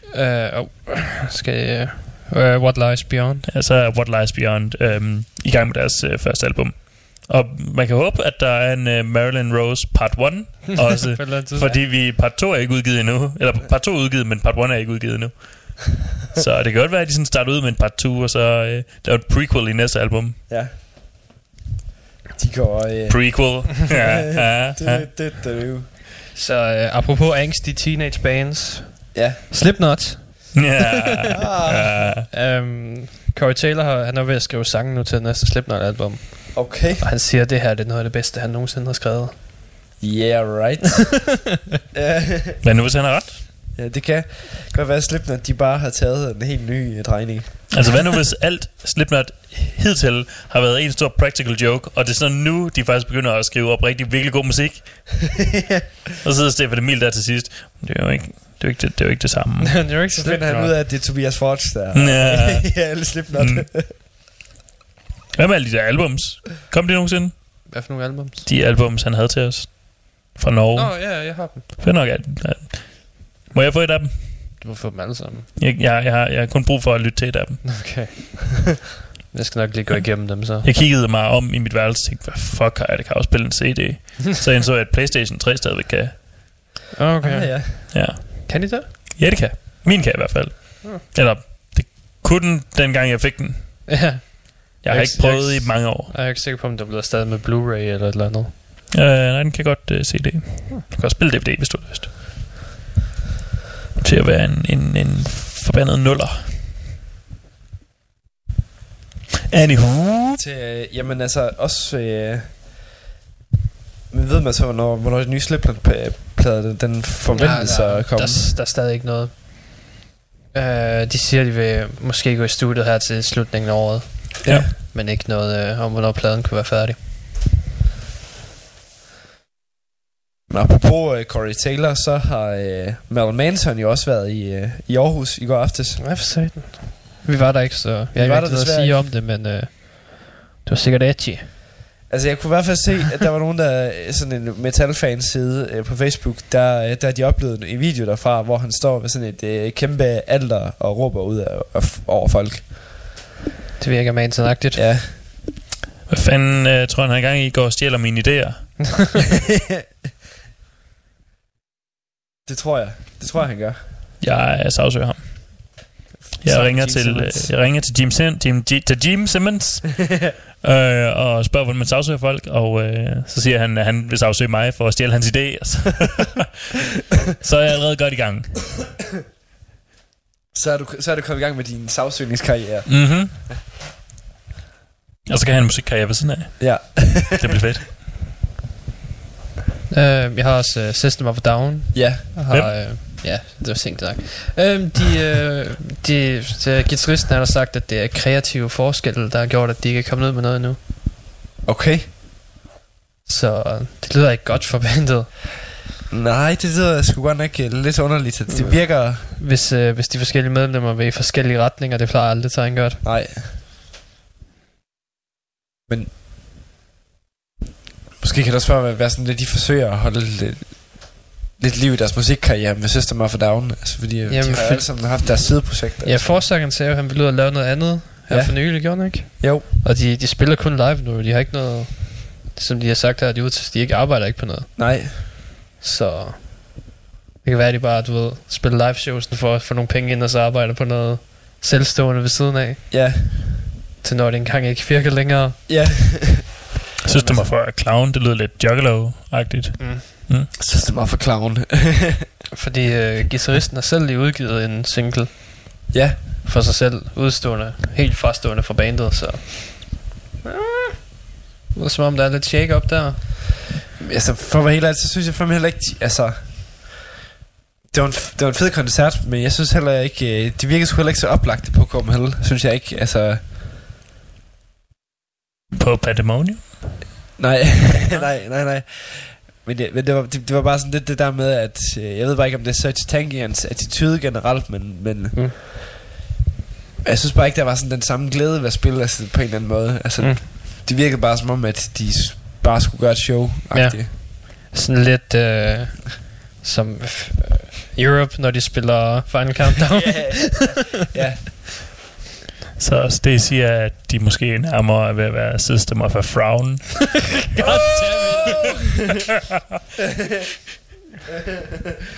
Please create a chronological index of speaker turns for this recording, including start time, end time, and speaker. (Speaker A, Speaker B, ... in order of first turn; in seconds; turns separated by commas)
Speaker A: 0.1-3.5, Speaker B: 3.4-20.4, Speaker A: 10.8-11.8, Speaker C: 20.5-20.7, Speaker C: 22.4-25.9, Speaker B: 23.1-25.1, Speaker A: 26.3-30.8, Speaker C: 29.1-29.4, Speaker B: 30.5-32.2, Speaker C: 31.4-32.2, Speaker A: 32.3-39.3, Speaker C: 36.5-37.0, Speaker C: 40.0-41.4, Speaker C: 41.9-42.6, Speaker B: 42.6-43.4, Speaker C: 43.8-47.9, Speaker B: 47.7-55.3, Speaker B: 56.2-59.9, Speaker A: 59.7-60.7, Speaker C: 60.1-63.9, Speaker B: 61.9-64.0, Speaker B: 65.3-67.8, Speaker A: 67.7-68.4, Speaker B: 68.4-74.6, Speaker A: 70.7-71.7, Speaker A: 74.6-75.5, Speaker B: 75.6-77.8, Speaker A: 77.6-78.6, Speaker A: 79.3-80.7, Speaker B: 80.6-86.3, Speaker A: 87.0-88.9, Speaker C: 87.2-87.8, Speaker B: 87.9-94.0, Speaker A: 93.9-98.5, Speaker B: 94.8-96.1, Speaker B: 98.9-102.3, Speaker B: 104.0-106.7, Speaker B: 109.5-110.4, Speaker C: 110.3-112.6, Speaker C: 114.1-118.5, Speaker A: 117.3-119.3, Speaker A: 120.5-127.0, Speaker C: 124.4-124.7, Speaker C: 130.5-136.0, Speaker A: 136.0-141.5, Speaker C: 138.1-139.1, Speaker C: 142.1-153.2, Speaker A: 153.8-154.9, Speaker C: 154.7-155.1, Speaker B: 156.1-158.9, Speaker C: 162.4-163.8, Speaker B: 164.2-165.9, Speaker C: 166.2-167.5, Speaker B: 166.4-170.1, Speaker B: 170.6-176.8, Speaker B: 177.4-178.8, Speaker C: 180.5-183.6, Speaker B: 182.9-183.3, Speaker B: 185.3-188.0, Speaker C: 186.6-187.4, Speaker A: 189.9-200.8, Speaker C: 191.9-192.2, Speaker C: 201.6-202.1, Speaker A: 203.2-205.3, Speaker C: 206.1-209.3, Speaker A: 208.5-213.0, Speaker C: 213.0-213.5, Speaker C: 215.9-216.1, Speaker C: 218.2-226.4, Speaker A: 224.3-225.2, Speaker A: 226.0-235.0, Speaker C: 228.3-229.6, Speaker C: 234.8-235.1, Speaker A: 235.8-236.8, Speaker A: 237.4-242.9, Speaker C: 242.9-243.6, Speaker A: 244.0-245.6, Speaker C: 245.7-246.6, Speaker B: 247.0-250.5, Speaker A: 247.2-247.5, Speaker A: 249.8-250.0, Speaker C: 250.6-252.3, Speaker A: 252.5-255.9, Speaker C: 255.9-256.2, Speaker A: 256.4-260.9, Speaker A: 261.7-263.2, Speaker C: 264.0-266.9, Speaker C: 267.9-273.5, Speaker B: 275.7-277.0, Speaker C: 277.4-285.6, Speaker C: 287.0-294.1, Speaker A: 293.7-300.6, Speaker C: 299.9-301.8, Speaker B: 302.8-307.3, Speaker A: 307.5-308.8, Speaker C: 307.6-308.7, Speaker C: 310.0-310.5